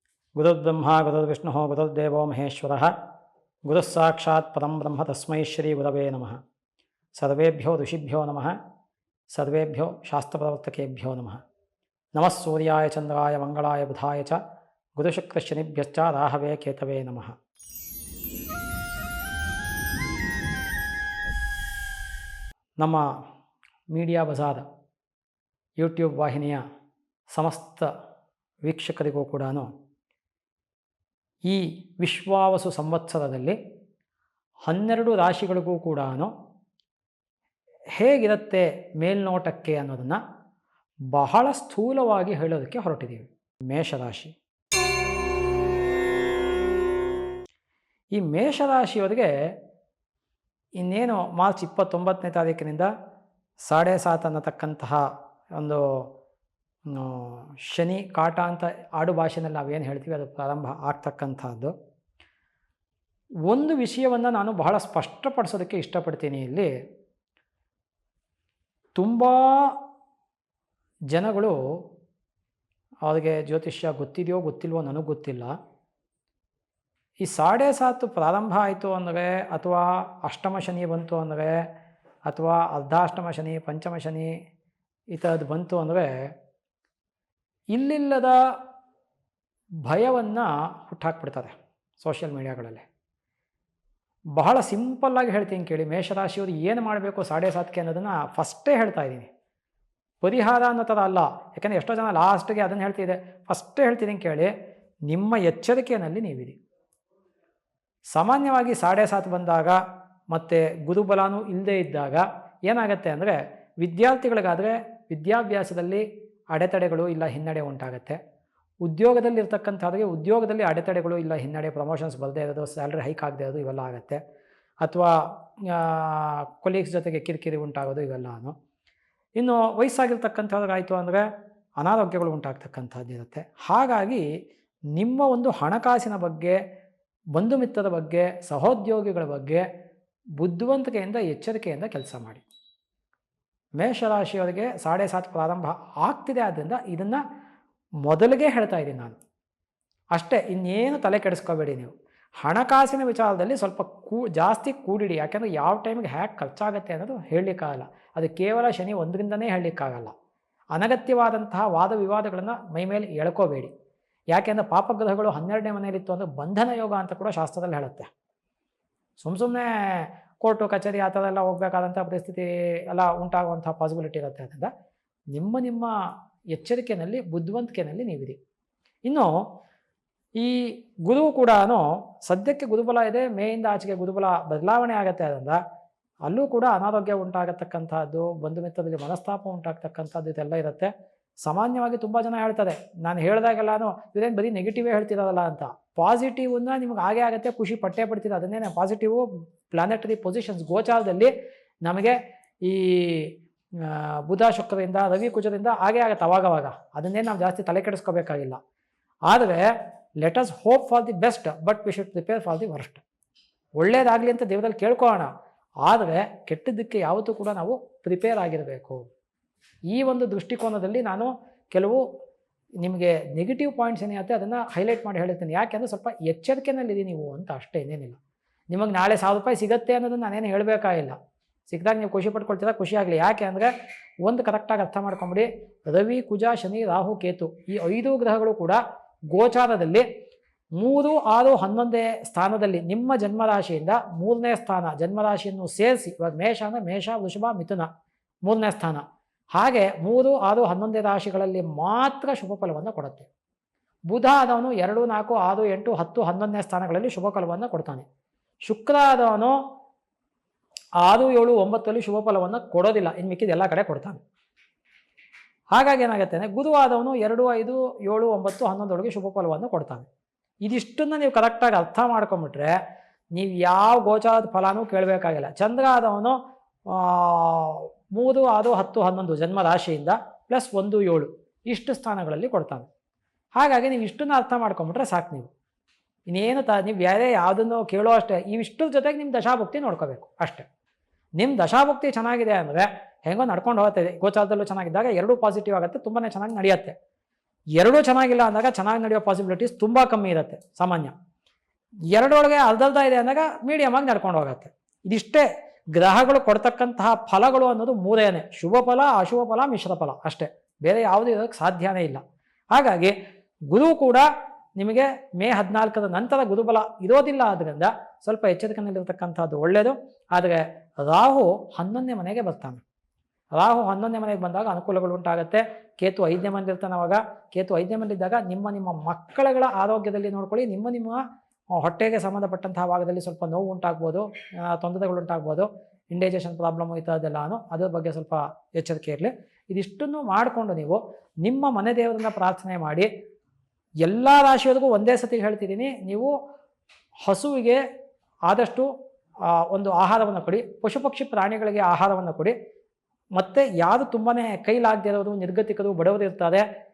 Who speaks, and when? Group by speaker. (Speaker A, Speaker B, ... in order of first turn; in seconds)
Speaker A: 0.3-2.9, 3.6-6.4, 7.2-8.6, 9.3-11.4, 12.1-14.4, 14.9-17.3, 22.8-23.1, 23.9-24.6, 25.8-26.6, 27.3-27.9, 28.6-29.7, 31.4-33.6, 34.6-36.3, 37.9-40.2, 41.1-44.3, 48.1-49.3, 50.8-52.9, 53.6-55.0, 55.5-56.1, 56.9-61.7, 63.5-66.7, 69.0-69.8, 71.1-71.6, 73.0-75.5, 77.2-81.7, 82.3-84.3, 85.1-86.1, 87.7-88.3, 89.8-92.8, 94.3-99.3, 100.2-104.5, 105.1-106.6, 108.1-109.8, 110.3-118.2, 118.8-124.2, 124.8-128.5, 129.4-131.2, 131.8-134.2, 134.9-136.6, 137.3-139.6, 140.4-142.4, 143.8-147.2, 148.0-149.2, 150.1-160.1, 160.7-163.7, 164.3-168.1, 169.2-174.7, 175.3-176.0, 176.5-178.4, 179.0-179.4, 180.3-185.6, 186.2-190.9, 191.4-201.3, 201.8-208.6, 209.3-213.0, 213.8-215.3, 215.8-219.0, 219.9-222.0, 222.8-228.2, 228.7-231.2, 231.7-233.7, 234.2-238.8, 239.3-240.1, 240.8-247.9, 248.4-249.0, 249.5-253.3, 254.1-258.0, 258.7-259.6, 261.0-264.2, 265.7-270.1, 270.6-272.8, 273.3-282.9, 283.6-285.5, 286.3-290.6, 291.4-296.9, 297.8-301.1, 302.1-312.2, 312.7-313.1, 313.7-322.8, 323.5-331.2, 331.7-343.1, 344.0-346.3, 347.2-347.8, 348.5-348.9, 349.4-352.5, 353.4-356.6